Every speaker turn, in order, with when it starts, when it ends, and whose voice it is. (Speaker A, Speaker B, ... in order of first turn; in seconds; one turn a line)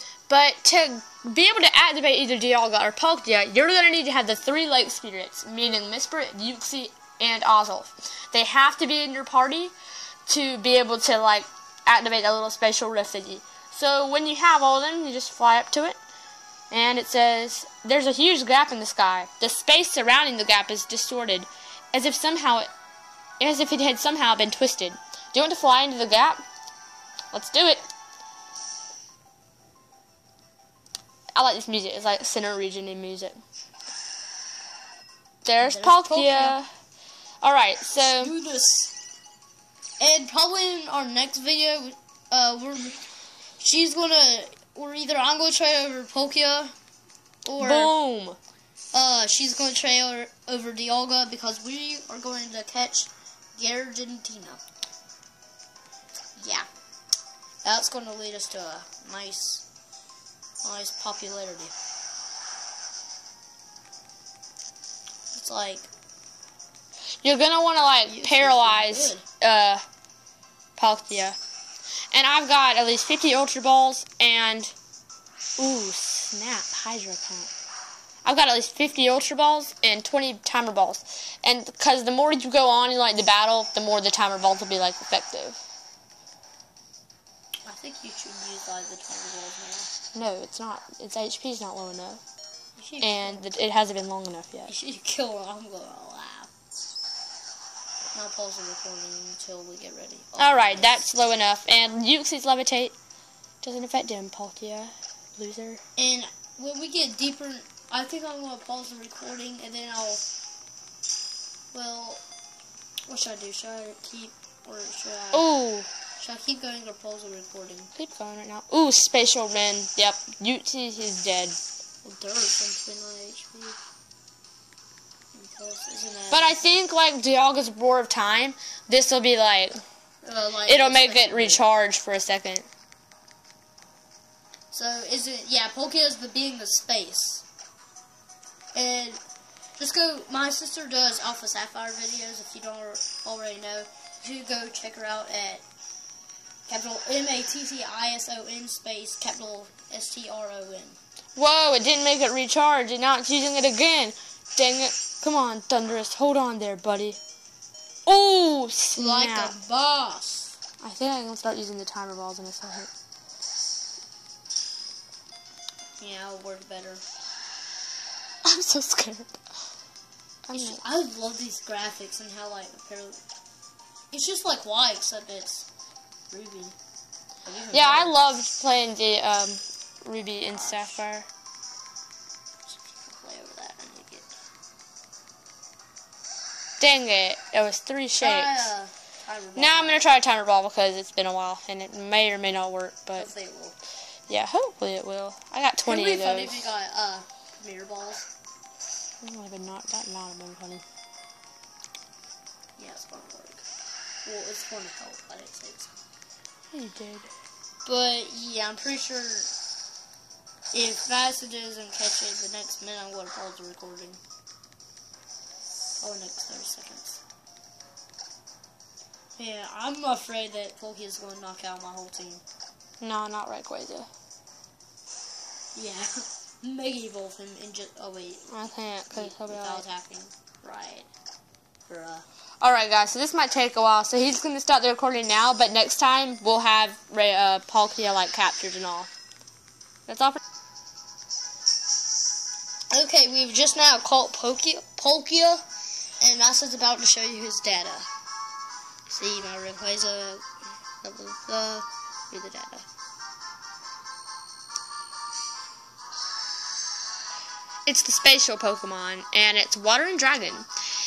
Speaker A: 0.3-9.7
Speaker A: 10.3-16.0
Speaker A: 16.7-22.7
Speaker A: 23.4-26.4
Speaker A: 27.3-27.8
Speaker A: 31.4-33.4
Speaker A: 35.5-36.7
Speaker B: 35.6-36.6
Speaker A: 37.4-38.3
Speaker B: 38.0-38.9
Speaker B: 40.0-43.1
Speaker B: 43.6-46.7
Speaker B: 47.5-47.9
Speaker A: 47.6-48.4
Speaker B: 48.9-54.6
Speaker B: 56.4-56.7
Speaker B: 57.6-59.6
Speaker B: 60.6-61.7
Speaker B: 65.3-65.9
Speaker A: 67.2-69.8
Speaker B: 68.1-69.2
Speaker A: 70.8-71.4
Speaker A: 72.1-74.7
Speaker A: 75.6-77.5
Speaker A: 78.2-85.6
Speaker B: 87.7-89.9
Speaker A: 90.1-92.2
Speaker B: 92.8-93.5
Speaker A: 93.0-94.7
Speaker B: 94.7-96.5
Speaker B: 98.1-101.0
Speaker A: 100.4-102.9
Speaker A: 103.6-105.8
Speaker B: 106.0-110.2
Speaker B: 111.7-112.2
Speaker B: 113.1-115.6
Speaker A: 115.3-115.9
Speaker B: 116.2-117.9
Speaker A: 118.0-121.6
Speaker B: 122.0-123.8
Speaker B: 125.3-126.8
Speaker A: 126.3-129.8
Speaker B: 130.2-131.6
Speaker A: 130.7-132.7
Speaker B: 134.7-137.4
Speaker B: 138.7-139.2
Speaker B: 139.8-145.6
Speaker B: 146.7-151.0
Speaker A: 151.4-157.2
Speaker A: 158.1-159.6
Speaker B: 158.9-160.6
Speaker A: 160.8-162.9
Speaker B: 166.0-167.0
Speaker A: 168.4-169.3
Speaker A: 170.5-170.8
Speaker B: 170.5-173.2
Speaker B: 174.1-175.7
Speaker B: 176.3-176.8
Speaker B: 177.4-178.2
Speaker A: 177.7-181.3
Speaker B: 180.5-181.0
Speaker B: 182.7-184.3
Speaker A: 186.8-188.7
Speaker B: 188.2-190.0
Speaker A: 189.6-193.3
Speaker B: 193.2-193.8
Speaker A: 194.3-196.6
Speaker B: 195.9-198.3
Speaker A: 199.2-200.8
Speaker B: 202.8-203.7
Speaker B: 204.2-205.9
Speaker A: 206.7-207.3
Speaker B: 207.8-209.5
Speaker B: 210.7-214.2
Speaker B: 216.0-217.2
Speaker B: 219.4-222.4
Speaker A: 223.0-224.1
Speaker B: 225.8-231.1
Speaker A: 228.5-229.8
Speaker B: 231.9-232.3
Speaker A: 232.6-239.1
Speaker A: 240.1-240.4
Speaker B: 242.9-245.6
Speaker B: 246.2-248.1
Speaker B: 249.1-250.5
Speaker B: 251.0-252.9
Speaker A: 257.9-260.7